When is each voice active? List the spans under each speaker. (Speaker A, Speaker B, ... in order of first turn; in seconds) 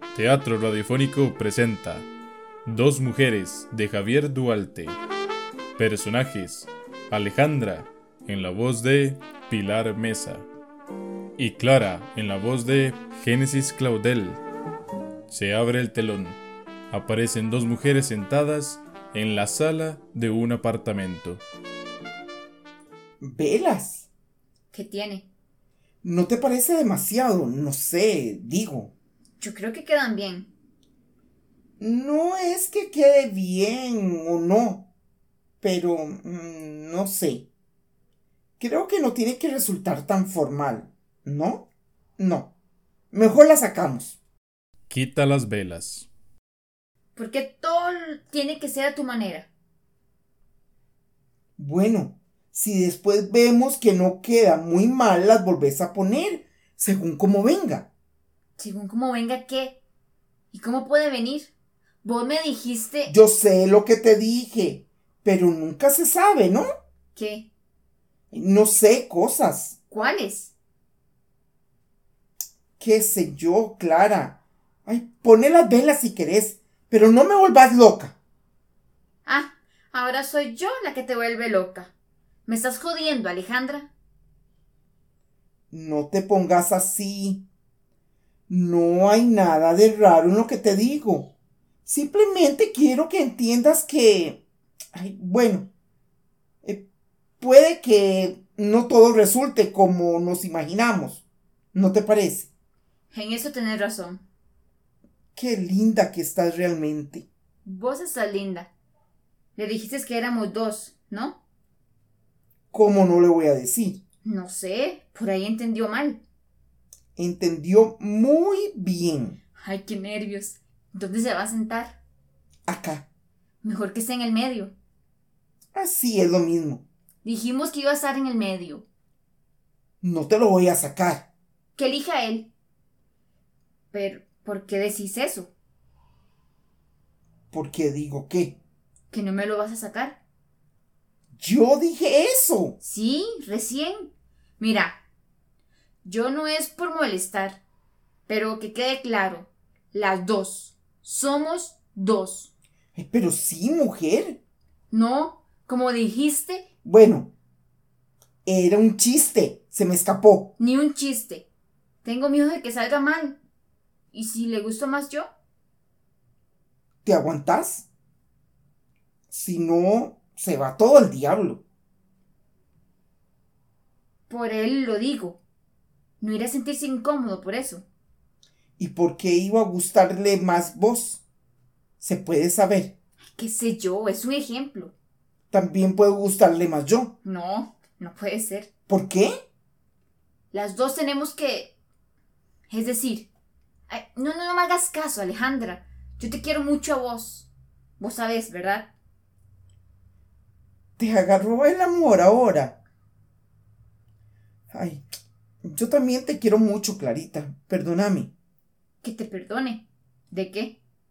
Speaker A: 0.1-2.1, 2.6-5.0, 5.8-10.5, 11.4-14.4, 15.3-21.4, 44.9-46.1
Speaker B: 23.2-24.1, 26.0-28.9, 31.8-34.9, 35.6-37.5, 38.6-42.5, 43.1-44.2, 51.6-57.9, 63.1-66.7, 68.3-69.8, 72.8-78.1, 85.7-87.4, 88.5-91.3, 91.9-94.4, 94.9-95.7, 97.4-102.5, 105.3-107.3, 112.7-114.0, 117.2-119.4, 122.7-123.0, 125.7-126.8, 130.0-131.3, 137.5-138.6, 141.4-142.8, 153.0-154.4, 156.8-157.3, 158.4-160.5, 167.1-167.9, 169.3-171.6, 178.8-181.2, 182.0-182.9, 185.5-187.2, 188.9-189.3, 201.0-202.8, 204.7-205.0, 205.6-208.3
Speaker C: 24.7-25.3, 29.4-30.5, 47.1-49.5, 58.6-59.8, 60.5-61.5, 62.0-63.1, 67.1-67.5, 69.9-70.5, 79.2-81.9, 82.5-83.9, 103.1-104.2, 107.6-108.7, 109.5-111.4, 114.2-116.2, 119.6-122.0, 123.6-124.7, 127.2-128.8, 131.8-132.5, 133.9-135.5, 139.1-140.2, 142.8-145.0, 146.0-147.6, 148.3-152.5, 154.9-156.7, 160.6-161.5, 162.0-163.4, 164.1-165.3, 174.3-175.4, 176.2-177.8, 183.3-184.9, 187.2-188.7, 190.5-191.8, 192.7-193.3, 193.9-197.5, 198.0-198.9, 209.0-210.8